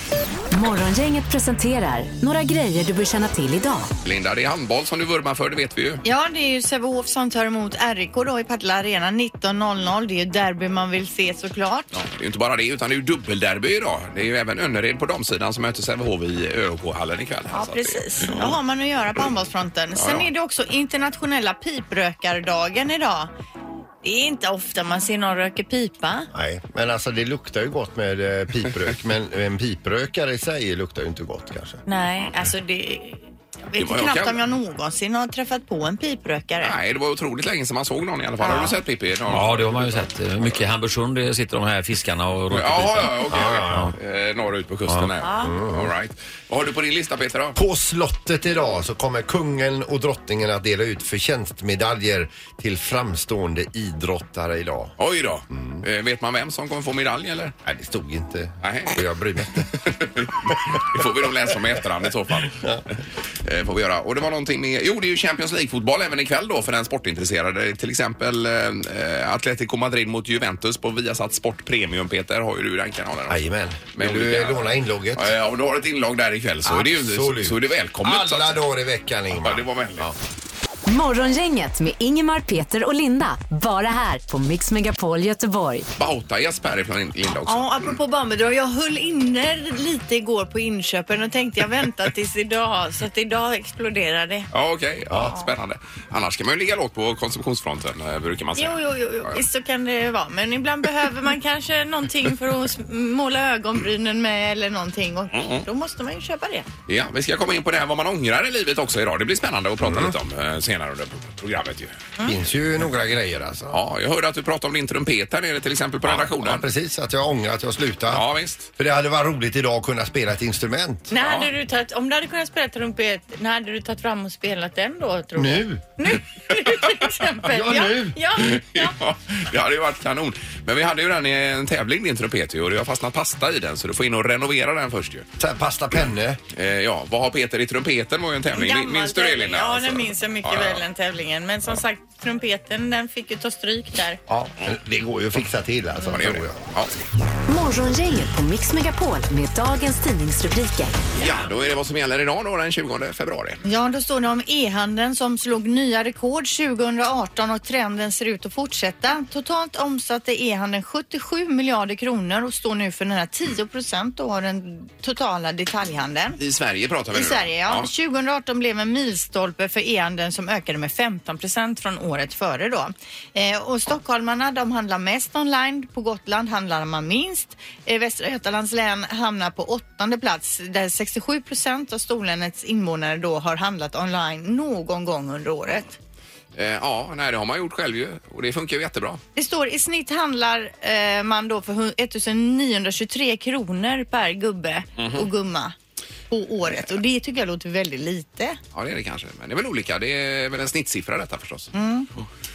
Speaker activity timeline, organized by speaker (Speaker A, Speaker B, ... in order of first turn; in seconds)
Speaker A: 0.5-3.9, 80.8-85.9, 147.5-151.0
Speaker B: 4.0-6.0, 11.9-18.6, 20.0-20.2, 33.8-34.4, 36.6-40.0, 42.5-47.6, 55.0-57.5, 58.6-59.0, 59.8-62.8, 63.4-78.6, 79.3-80.1, 86.0-87.7, 94.5-99.4, 105.3-105.7, 106.9-111.9, 113.7-116.6, 118.1-118.7, 121.2-121.5, 128.4-135.2, 136.5-140.8, 146.0-146.9, 151.2-153.6, 166.4-167.9, 186.6-189.2, 195.0-195.3, 198.7-201.7
Speaker C: 6.0-11.9, 17.5-23.3, 24.0-26.3, 31.9-36.7, 38.4-38.7, 45.2-45.5, 87.5-94.5, 98.6-106.7, 121.1-128.9, 138.5-144.2, 153.6-166.4, 167.1-185.9, 189.3-195.8, 196.3-198.6, 201.7-202.1
Speaker D: 26.3-31.8, 43.3-43.9, 45.0-45.9, 47.5-55.0, 55.5-55.8, 57.6-59.8, 62.5-62.8, 73.3-75.3, 76.6-80.2, 95.1-95.4, 109.8-110.1, 112.2-113.8, 116.0-121.1, 125.3-125.8, 127.4-128.2, 135.4-136.4, 144.3-146.6
Speaker E: 39.3-43.9